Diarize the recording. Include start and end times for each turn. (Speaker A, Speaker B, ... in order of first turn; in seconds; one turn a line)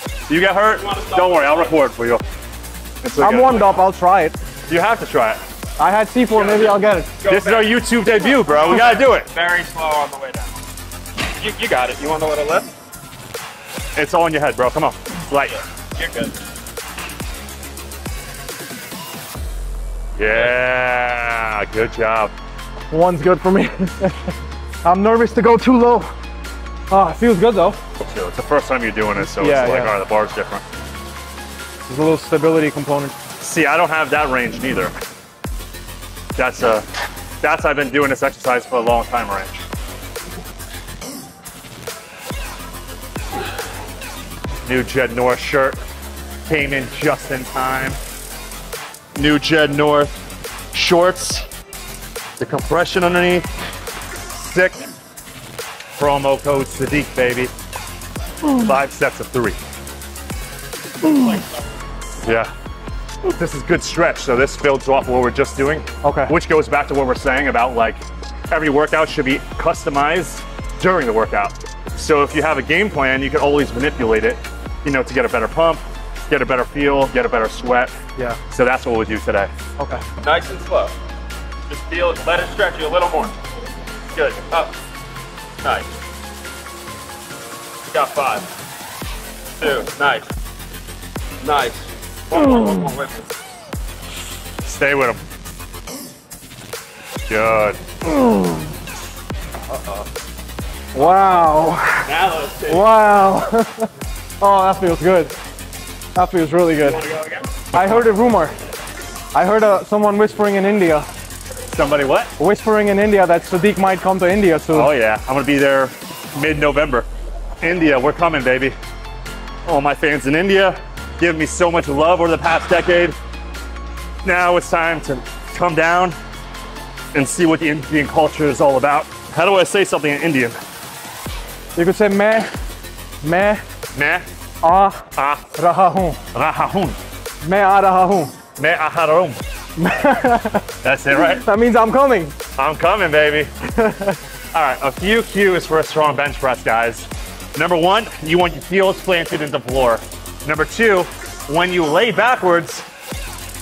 Speaker A: 0.3-2.2
Speaker B: 0.8-1.7
Speaker A: 3.0-3.7
Speaker C: 3.2-4.4
Speaker A: 4.7-5.4
Speaker C: 5.8-7.1
Speaker B: 6.3-10.5
Speaker A: 7.3-9.3
Speaker B: 11.4-12.7
Speaker A: 14.0-15.6
Speaker B: 15.9-16.4
Speaker A: 20.2-22.3
Speaker C: 22.9-26.1
Speaker C: 26.9-27.8
Speaker A: 28.0-30.6
Speaker C: 29.4-29.9
Speaker C: 31.9-33.1
Speaker A: 33.4-34.9
Speaker A: 36.4-36.9
Speaker A: 37.4-39.6
Speaker A: 44.7-45.8
Speaker A: 46.5-48.0
Speaker A: 49.1-50.2
Speaker A: 50.7-51.5
Speaker A: 52.4-53.5
Speaker A: 54.3-54.9
Speaker A: 56.0-57.5
Speaker A: 58.5-59.6
Speaker B: 61.1-61.5
Speaker A: 62.2-62.5
Speaker A: 63.3-78.0
Speaker C: 66.0-66.3
Speaker A: 78.5-79.5
Speaker C: 79.8-80.0
Speaker B: 80.2-80.9
Speaker B: 81.7-83.3
Speaker B: 84.4-84.7
Speaker B: 85.6-85.9
Speaker B: 87.9-88.5
Speaker B: 89.6-90.3
Speaker B: 91.4-93.3
Speaker A: 94.7-95.2
Speaker A: 97.3-97.8
Speaker B: 99.7-100.0
Speaker C: 100.9-103.9
Speaker B: 102.0-102.9
Speaker C: 104.4-105.3
Speaker C: 106.2-107.0
Speaker B: 106.8-107.6
Speaker C: 107.7-108.6
Speaker A: 107.8-108.0
Speaker C: 109.3-111.1
Speaker A: 111.7-112.3
Speaker C: 112.4-114.9
Speaker A: 114.7-117.1
Speaker A: 117.6-118.8
Speaker A: 119.7-123.2
Speaker A: 124.2-126.2
Speaker A: 127.1-130.6
Speaker C: 131.8-132.5
Speaker C: 133.2-133.6
Speaker A: 133.9-134.3
Speaker C: 134.6-136.2
Speaker A: 135.2-135.5
Speaker A: 136.3-137.0
Speaker C: 137.4-138.4
Speaker A: 138.6-139.4
Speaker C: 139.8-142.4
Speaker A: 140.8-141.4
Speaker A: 142.6-143.5
Speaker C: 143.7-144.2
Speaker A: 144.5-152.9